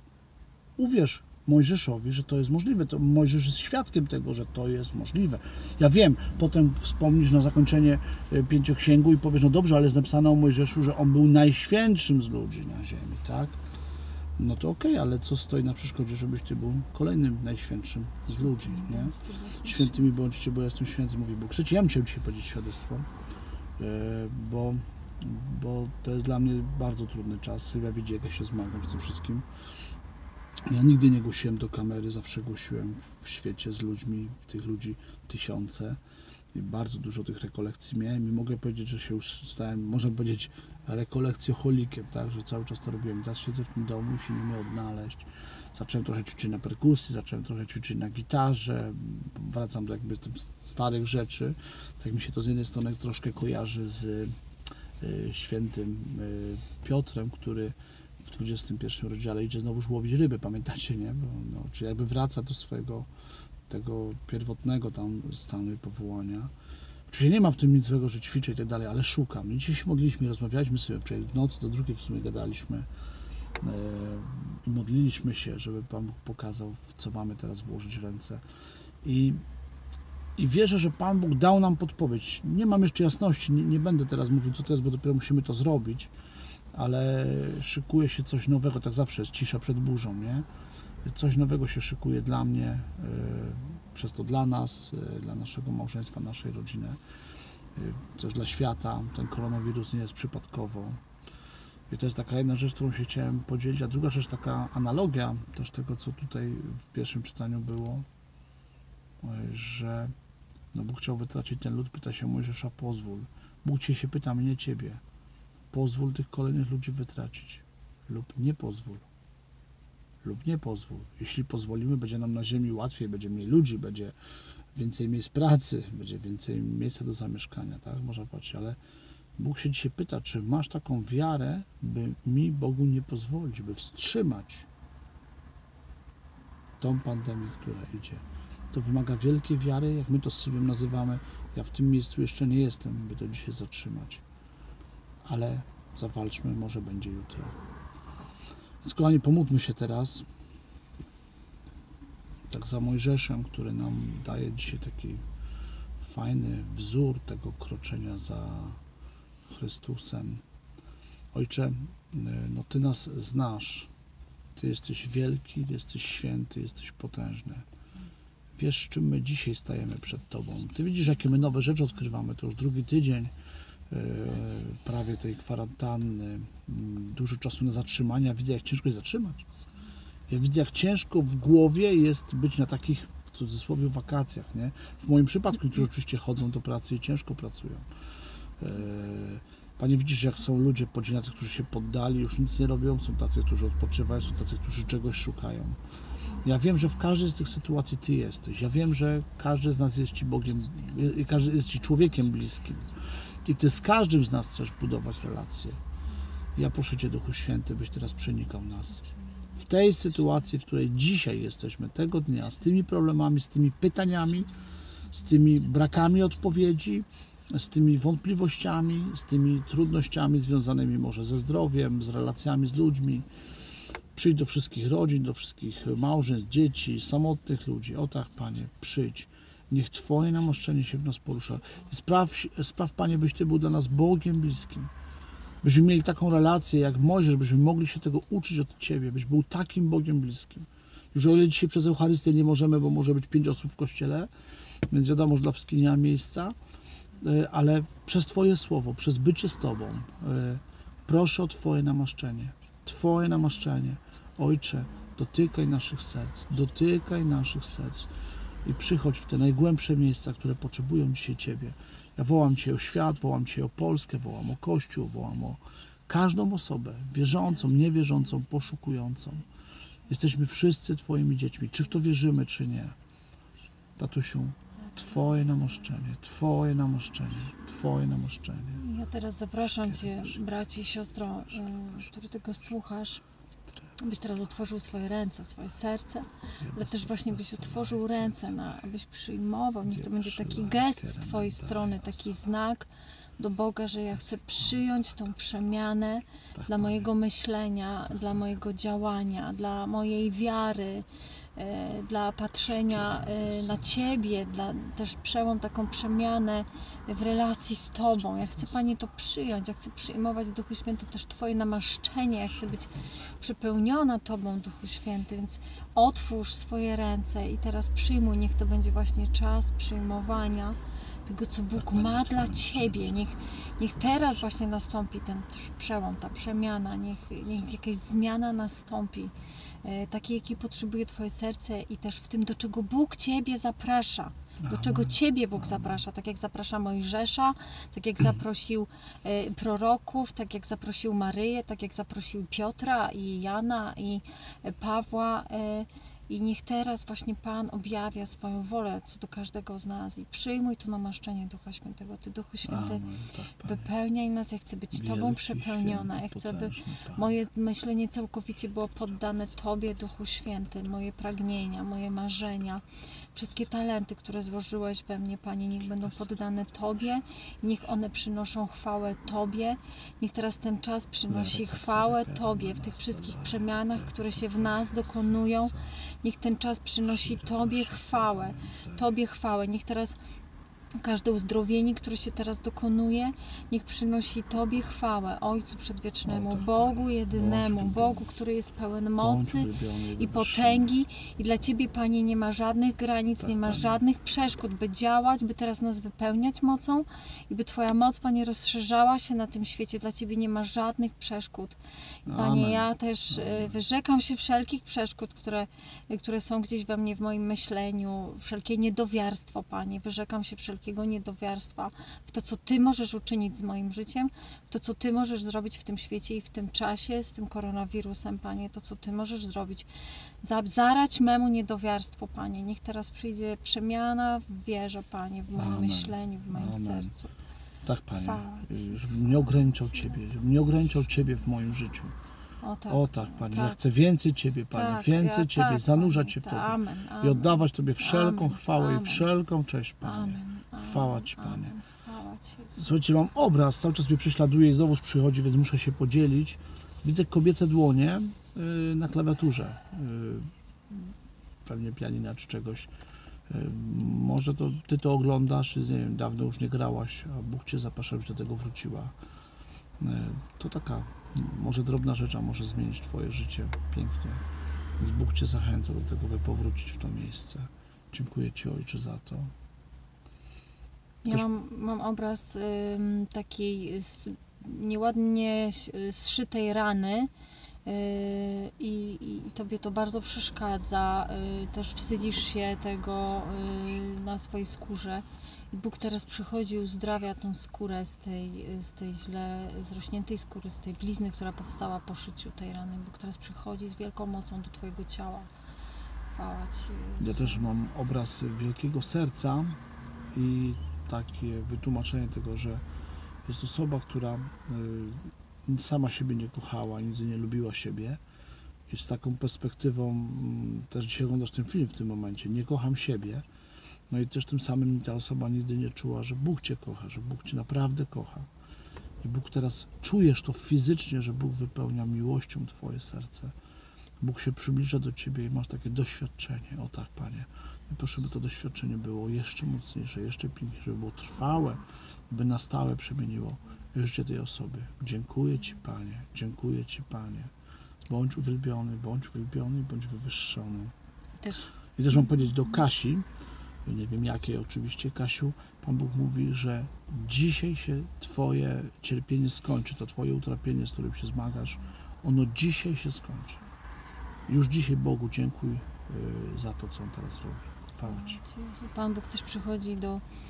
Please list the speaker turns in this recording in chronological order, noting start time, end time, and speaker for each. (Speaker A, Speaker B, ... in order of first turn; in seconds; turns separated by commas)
Speaker A: 0.8-13.6, Speaker A: 14.4-23.1, Speaker B: 18.3-20.1, Speaker A: 23.8-29.5, Speaker A: 30.7-36.0, Speaker A: 36.5-54.4, Speaker A: 55.0-63.1, Speaker A: 63.7-66.5, Speaker A: 67.1-72.9, Speaker A: 73.6-78.4, Speaker A: 79.0-79.4, Speaker A: 80.4-86.1, Speaker A: 86.7-90.5, Speaker A: 91.0-97.0, Speaker A: 97.7-101.0, Speaker A: 101.9-108.1, Speaker A: 109.2-110.1, Speaker A: 110.7-115.0, Speaker A: 115.7-119.1, Speaker A: 120.2-124.2, Speaker A: 124.7-128.8, Speaker A: 129.4-134.7, Speaker A: 136.8-144.2, Speaker A: 145.2-147.6, Speaker A: 148.8-150.3, Speaker A: 152.5-155.2, Speaker A: 156.0-158.8, Speaker A: 159.5-160.4, Speaker A: 161.3-163.9, Speaker A: 164.6-167.7, Speaker A: 168.6-173.3, Speaker A: 173.9-179.4, Speaker A: 180.3-187.9, Speaker A: 188.6-195.8, Speaker A: 196.4-205.8, Speaker A: 206.6-214.6, Speaker A: 215.1-223.3, Speaker A: 224.1-234.9, Speaker A: 235.6-244.3, Speaker A: 244.9-246.6, Speaker A: 247.2-258.1, Speaker A: 258.6-269.5, Speaker A: 270.1-273.0, Speaker A: 274.0-278.8, Speaker B: 278.8-283.2, Speaker A: 279.6-280.4, Speaker A: 281.8-282.0, Speaker A: 283.7-284.3, Speaker B: 284.0-301.1, Speaker A: 286.6-288.6, Speaker A: 289.9-292.4, Speaker A: 294.1-295.3, Speaker A: 296.6-297.1, Speaker B: 301.6-329.3, Speaker A: 302.7-304.0, Speaker A: 321.7-323.3, Speaker A: 324.0-324.4, Speaker B: 329.8-353.1, Speaker A: 334.6-336.0, Speaker A: 352.7-353.9, Speaker B: 353.6-362.8, Speaker A: 354.9-357.3, Speaker B: 363.3-380.2, Speaker A: 365.9-366.4, Speaker A: 371.3-376.0, Speaker A: 377.0-379.1, Speaker B: 381.0-401.8, Speaker A: 386.3-388.3, Speaker A: 389.2-390.9, Speaker A: 393.4-394.0, Speaker A: 402.3-403.8, Speaker B: 402.3-419.9, Speaker B: 420.4-427.3, Speaker A: 425.6-427.1, Speaker A: 427.9-432.1, Speaker B: 428.1-429.3, Speaker B: 432.6-433.8, Speaker A: 432.9-441.8, Speaker B: 434.7-439.3, Speaker B: 440.0-443.0, Speaker A: 442.8-452.9, Speaker A: 453.5-459.1, Speaker A: 460.0-464.4, Speaker A: 465.0-469.5, Speaker B: 471.2-477.3, Speaker B: 477.9-495.5, Speaker B: 496.3-497.7, Speaker A: 497.2-499.8, Speaker A: 500.3-502.8, Speaker A: 503.4-508.2, Speaker A: 508.9-513.5, Speaker A: 514.1-518.5, Speaker A: 519.2-523.5, Speaker A: 524.2-537.5, Speaker A: 538.1-540.9, Speaker B: 541.4-541.7, Speaker A: 542.0-543.3, Speaker A: 543.8-553.7, Speaker A: 554.5-558.4, Speaker B: 558.0-560.2